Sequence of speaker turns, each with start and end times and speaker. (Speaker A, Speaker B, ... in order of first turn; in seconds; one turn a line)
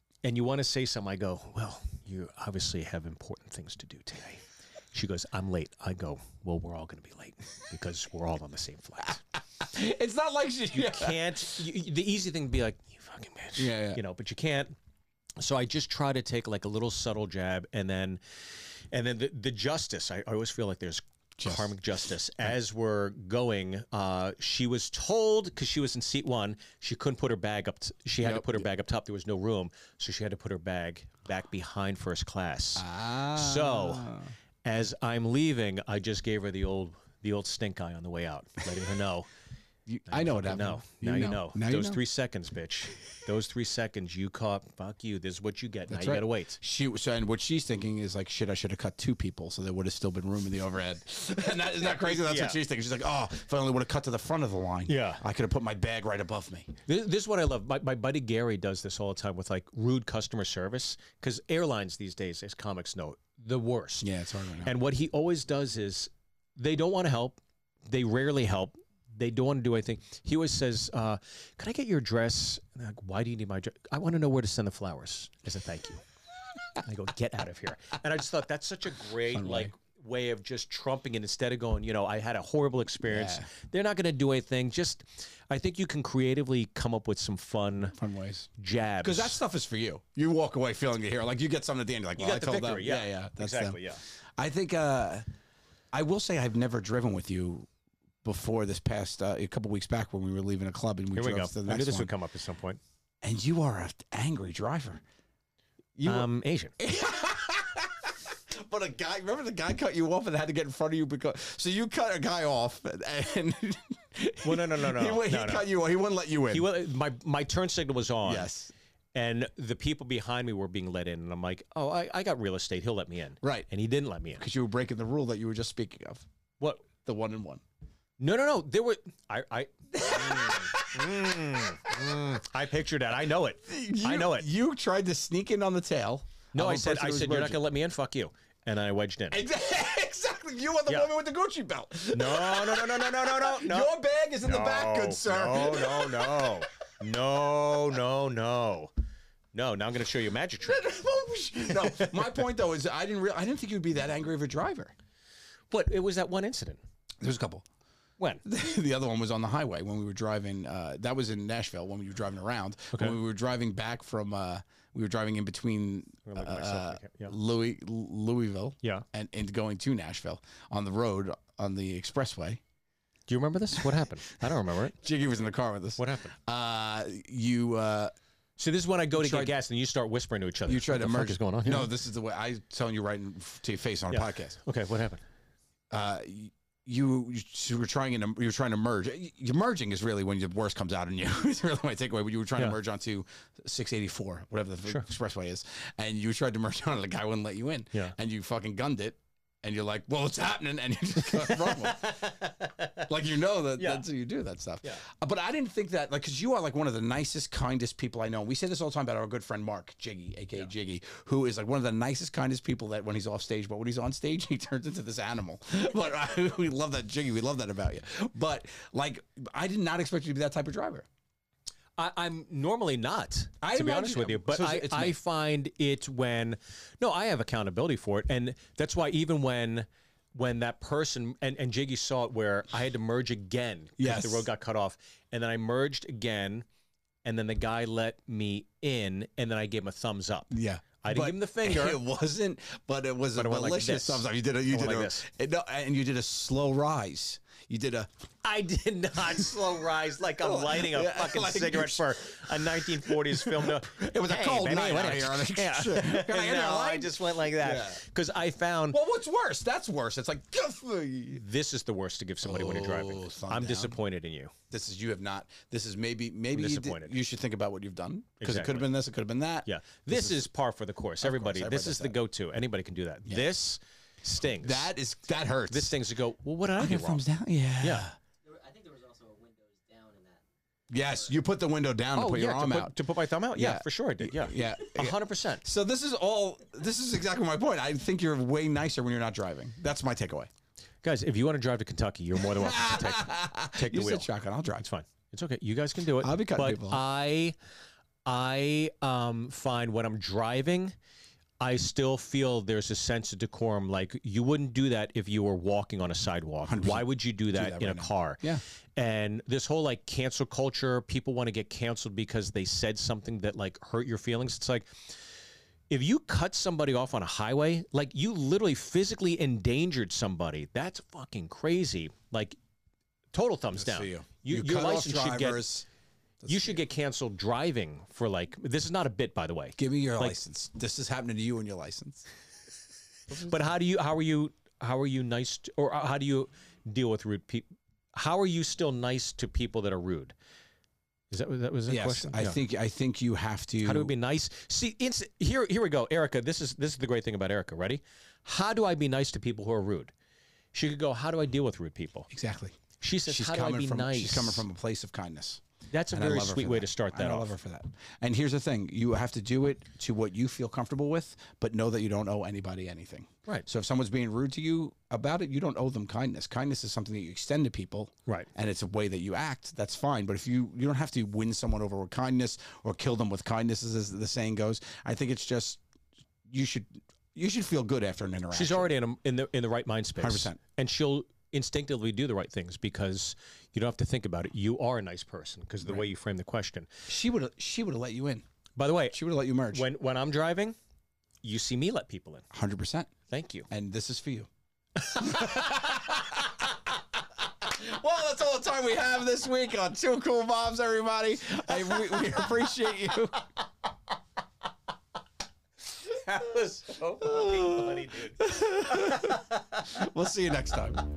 Speaker A: 0.2-9.2
Speaker B: 9.6-11.4
Speaker A: 10.7-14.8
Speaker B: 13.6-14.0
Speaker A: 15.4-18.2
Speaker A: 18.9-39.3
Speaker B: 21.4-21.7
Speaker B: 28.2-28.7
Speaker B: 32.8-34.3
Speaker B: 39.9-42.0
Speaker A: 40.1-46.6
Speaker B: 45.9-56.7
Speaker A: 51.8-52.6
Speaker A: 54.9-55.2
Speaker A: 56.9-64.1
Speaker B: 64.0-64.7
Speaker A: 64.6-76.0
Speaker A: 76.8-88.0
Speaker B: 79.3-79.7
Speaker B: 83.0-83.5
Speaker B: 88.0-88.5
Speaker A: 88.6-89.4
Speaker B: 89.0-93.8
Speaker A: 92.2-94.0
Speaker B: 94.4-95.3
Speaker B: 95.9-97.7
Speaker B: 98.2-102.1
Speaker A: 101.2-102.8
Speaker B: 103.2-105.0
Speaker B: 106.0-116.7
Speaker A: 106.0-106.7
Speaker A: 114.4-115.7
Speaker A: 116.5-118.5
Speaker B: 118.2-118.7
Speaker A: 119.2-124.4
Speaker B: 123.4-123.7
Speaker B: 124.4-126.3
Speaker A: 126.6-126.9
Speaker B: 126.9-127.6
Speaker A: 128.2-134.5
Speaker B: 129.9-132.4
Speaker B: 133.6-137.6
Speaker A: 136.5-139.4
Speaker B: 139.3-146.6
Speaker A: 142.1-143.9
Speaker A: 144.4-148.9
Speaker A: 149.5-150.8
Speaker B: 150.6-154.9
Speaker A: 151.8-152.2
Speaker A: 155.7-156.8
Speaker B: 157.2-157.7
Speaker A: 158.2-158.4
Speaker B: 158.4-172.6
Speaker A: 162.9-163.2
Speaker A: 166.3-167.4
Speaker A: 173.3-174.9
Speaker B: 174.4-178.1
Speaker A: 176.0-176.3
Speaker A: 178.6-181.9
Speaker B: 179.1-179.5
Speaker B: 180.7-184.6
Speaker A: 184.1-185.2
Speaker B: 185.9-202.0
Speaker A: 201.3-203.1
Speaker B: 203.1-221.1
Speaker A: 203.8-204.1
Speaker A: 222.0-236.7
Speaker B: 223.6-225.2
Speaker B: 234.0-234.5
Speaker A: 237.2-242.0
Speaker B: 240.5-248.1
Speaker A: 243.3-245.3
Speaker A: 248.4-259.0
Speaker B: 250.4-258.0
Speaker B: 258.9-261.4
Speaker A: 261.3-264.5
Speaker B: 262.4-264.0
Speaker B: 264.7-270.5
Speaker A: 266.5-267.2
Speaker A: 268.4-268.9
Speaker A: 269.7-274.9
Speaker B: 271.2-272.2
Speaker B: 274.4-275.9
Speaker A: 275.7-277.2
Speaker B: 276.8-278.2
Speaker A: 277.8-278.1
Speaker C: 278.4-280.4
Speaker B: 280.9-283.0
Speaker C: 281.0-281.4
Speaker A: 282.1-285.6
Speaker B: 283.6-290.5
Speaker A: 291.0-297.6
Speaker B: 292.4-294.9
Speaker B: 296.2-297.0
Speaker A: 298.2-300.9
Speaker A: 301.6-314.9
Speaker B: 306.7-308.6
Speaker A: 315.9-322.6
Speaker A: 323.3-325.7
Speaker B: 323.7-325.9
Speaker B: 326.4-326.8
Speaker A: 326.5-330.4
Speaker B: 329.8-332.2
Speaker B: 333.3-333.7
Speaker A: 333.4-340.3
Speaker A: 341.3-342.6
Speaker B: 341.9-344.1
Speaker A: 343.8-350.1
Speaker A: 350.7-352.3
Speaker B: 352.3-375.8
Speaker A: 353.0-354.7
Speaker A: 355.9-357.5
Speaker B: 376.5-378.9
Speaker A: 378.5-386.9
Speaker B: 380.2-380.6
Speaker B: 387.1-388.4
Speaker A: 388.8-389.2
Speaker B: 389.1-389.9
Speaker A: 389.7-390.8
Speaker A: 391.4-392.5
Speaker B: 392.5-393.1
Speaker A: 393.3-393.7
Speaker B: 393.7-394.5
Speaker A: 395.0-396.0
Speaker B: 395.1-396.8
Speaker B: 397.4-403.4
Speaker A: 406.1-409.4
Speaker B: 407.2-411.0